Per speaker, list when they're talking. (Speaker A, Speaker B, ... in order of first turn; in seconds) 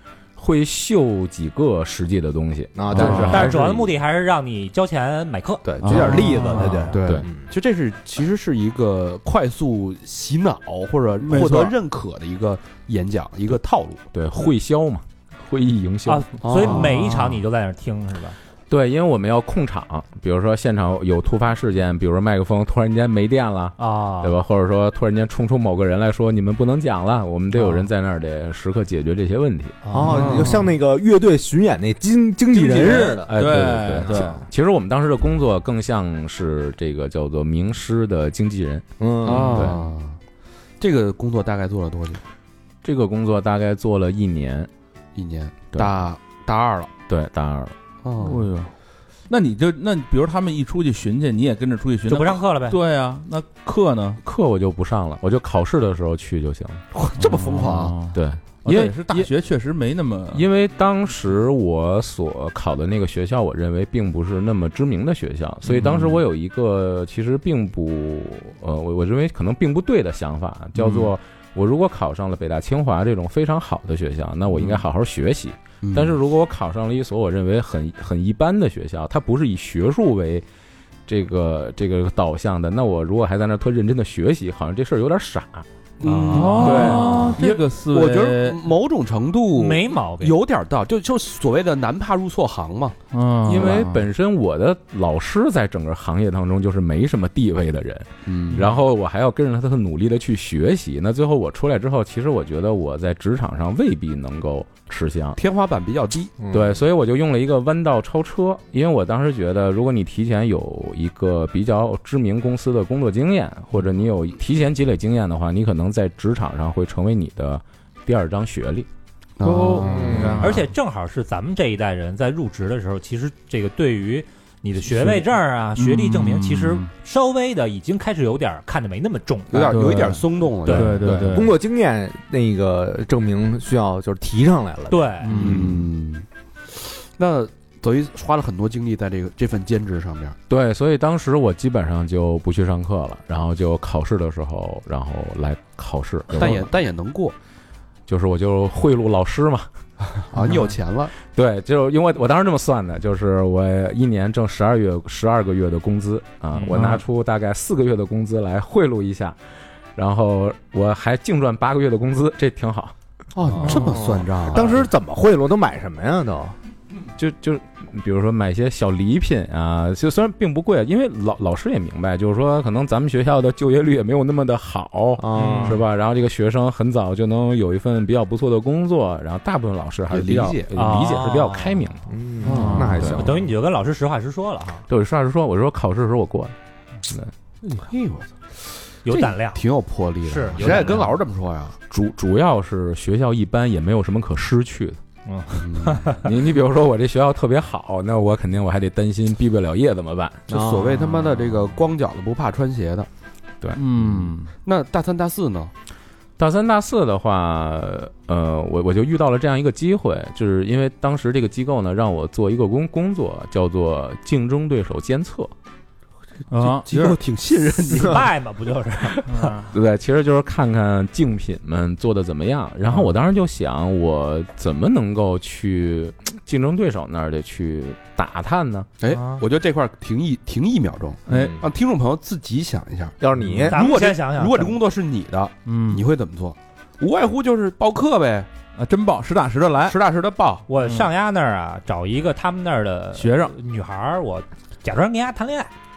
Speaker A: 0.4-3.9, 14.1-16.8, 18.7-29.8, 32.7-39.8, 42.8-44.7, 47.1-47.7, 54.2-56.8, 58.1-59.3, 60.3-80.5, 81.1-85.7, 86.3-87.3, 93.5-105.4, 106.5-118.9, 140.5-146.7, 148.1-149.7, 151.3-159.4, 159.9-162.9, 167.2-182.0, 183.0-183.3, 184.9-186.5, 190.6-190.9, 191.9-195.0, 196.2-200.5, 206.4-215.5, 219.7-228.9
Speaker B: 2.8-3.5, 5.7-7.4, 29.9-34.3, 39.0-39.7, 106.4-106.7, 119.8-120.5, 131.0-135.2, 163.5-166.6, 175.2-175.8, 182.1-183.4, 200.5-201.1, 233.2-233.8
Speaker C: 2.9-3.5, 5.8-7.0, 11.2-11.8, 30.1-30.6, 32.5-34.4, 48.2-48.7, 49.3-54.2, 57.2-60.4, 65.7-66.2, 86.0-88.6, 93.1-94.0, 119.4-120.7, 124.9-125.2, 125.8-126.9, 129.6-131.5, 135.2-135.8, 156.7-157.0, 163.6-163.9, 182.4-183.1, 203.8-204.5, 216.5-217.2, 219.2-219.7, 231.3-231.6, 235.7-236.1, 238.8-240.0, 240.8-241.1, 243.2-243.5
Speaker D: 3.1-6.0, 16.1-18.4, 23.8-24.4, 29.9-30.4, 52.1-52.8, 89.5-90.4, 120.4-130.0, 134.9-135.5, 175.3-175.8, 180.7-181.8, 183.1-184.8, 189.1-189.6, 190.2-191.1, 195.3-196.3, 217.9-219.6, 229.1-229.4, 233.7-234.8, 240.7-245.7
Speaker E: 6.9-14.0, 16.4-16.9, 30.1-30.6, 39.2-40.2, 40.8-42.2, 45.1-46.9, 48.0-48.4, 56.9-58.0, 70.8-71.1, 74.5-74.8, 75.8-76.2, 86.0-93.0, 98.3-98.7, 105.4-106.3, 119.4-120.3, 129.5-131.1, 135.4-140.4, 146.3-147.3, 150.2-151.1, 163.4-164.9, 180.1-180.7, 182.4-183.0, 187.7-188.3, 189.1-191.8, 195.6-196.2, 200.5-203.1, 204.6-205.7, 216.6-218.3, 229.0-233.2, 233.7-238.5, 239.9-240.7